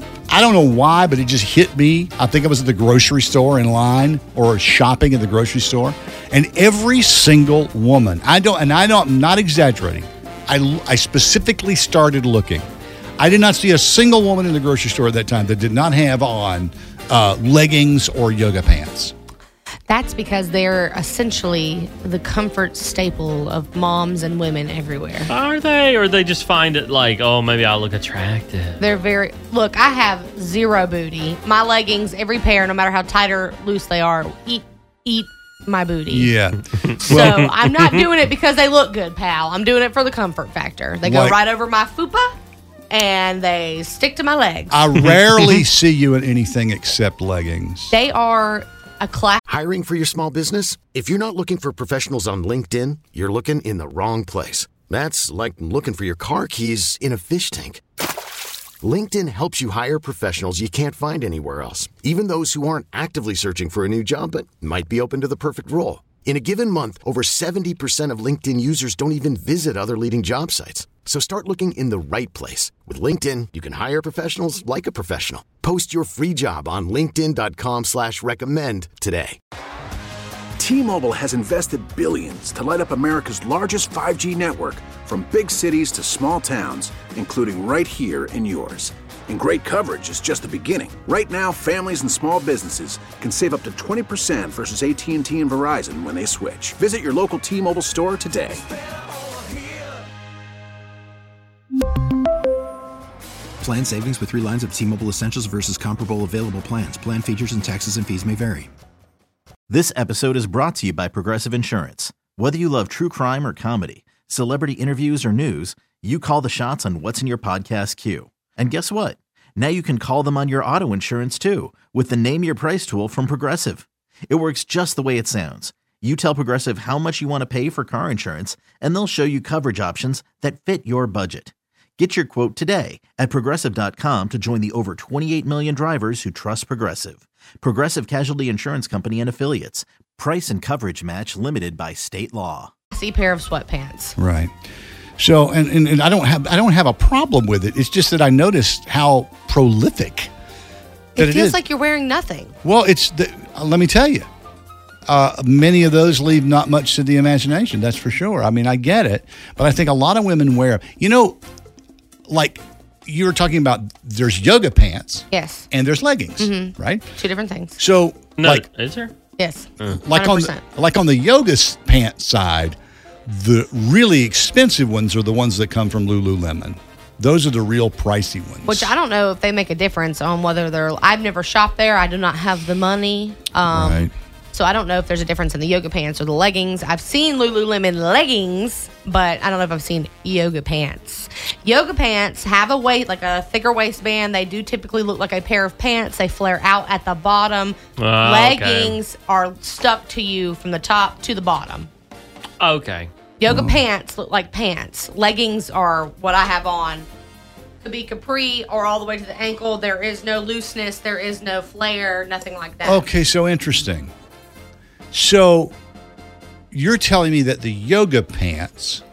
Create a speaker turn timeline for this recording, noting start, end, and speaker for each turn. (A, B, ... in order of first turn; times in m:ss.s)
0:00.3-0:12.7 A
0:13.2-0:19.1 A
0:19.9-0:25.3 B
0:25.3-0:28.8 C
0:28.8-0:36.3 B
0:36.1-0:37.5 A
0:37.0-0:42.3 B
0:41.0-0:41.4 A
0:42.9-0:44.8 B
0:44.7-0:48.0 A
0:47.9-0:49.4 B
0:49.5-0:57.8 D
0:58.8-1:19.4 D
1:20.6-1:38.6 E
1:43.6-1:48.7 F
1:49.7-2:22.7 G
2:22.9-2:24.2 B
2:24.2-2:24.5 A
2:25.2-2:30.3 A
2:31.2-2:32.5 B
2:31.2-2:31.6 A
2:32.6-2:34.3 A
2:35.1-2:41.4 A
2:42.3-2:47.1 A
2:45.3-2:45.7 B
2:46.4-2:47.8 B
2:47.8-2:48.6 A
2:48.4-2:49.1 C
2:49.4-2:50.6 B
2:49.9-2:58.9 A
2:58.6-3:21.9 B
3:03.7-3:04.1 A
3:18.0-3:19.0 C
3:22.6-3:23.1 C
3:23.4-3:27.1 B
3:23.5-3:23.8 A
3:27.8-3:33.0 B
3:32.8-3:34.1 A
3:35.1-3:35.7 A
3:36.7-3:39.0 A